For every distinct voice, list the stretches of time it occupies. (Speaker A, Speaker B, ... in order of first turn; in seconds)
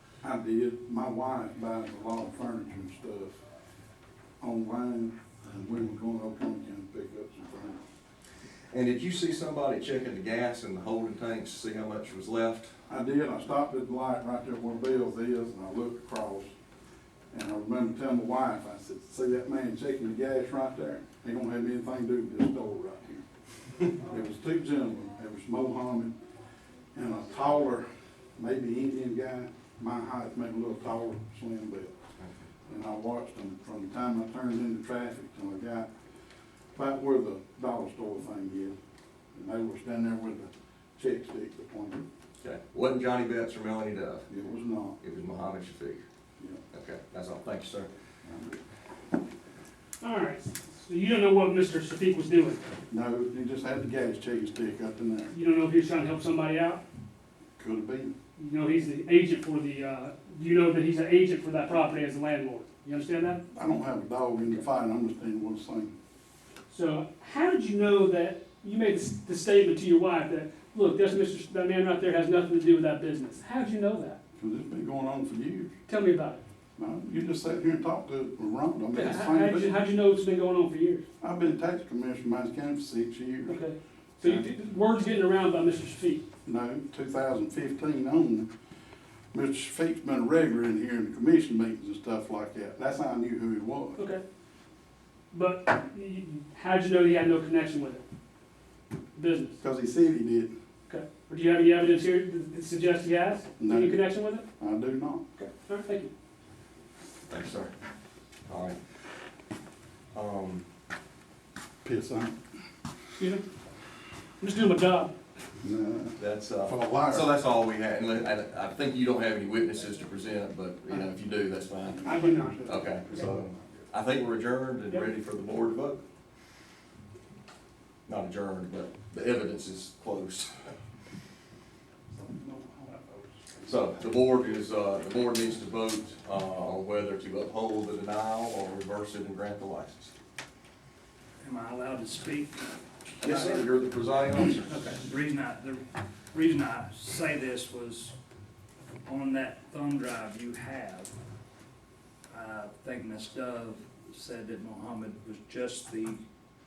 Speaker A: 0.2-3.4, 4.4-7.8, 12.9-16.5, 17.3-23.2, 23.8-26.1, 26.9-31.9, 32.7-35.9, 36.7-38.8, 39.3-42.0, 44.3-45.0, 48.2-48.6, 52.9-55.3, 57.6-58.1, 63.5-65.9, 74.4-75.7, 76.8-79.7, 81.2-83.6, 84.2-84.5, 86.4-88.5, 89.3-94.0, 99.6-100.5, 103.6-104.0, 104.6-105.2, 111.8-112.3, 115.6-117.3, 121.8-123.9, 132.1-133.7
Speaker B: 8.7-12.7, 42.4-44.2, 45.0-46.0, 46.7-47.9, 107.3-107.7, 108.5-108.8, 110.1-110.6, 116.2-126.0, 128.1-130.7, 133.6-140.1, 143.2-144.7
Speaker C: 50.0-52.6, 55.3-56.8, 58.4-63.4, 66.7-74.2, 75.9-76.4, 78.9-81.0, 83.5-86.2, 94.0-94.2, 95.3-98.0, 99.1-99.6, 100.9-104.5, 105.3-106.1, 113.2-113.4, 114.4-115.1, 122.0-123.3
Speaker D: 141.4-142.7, 143.2-143.7, 144.6-148.2, 149.0-151.1, 152.3-156.2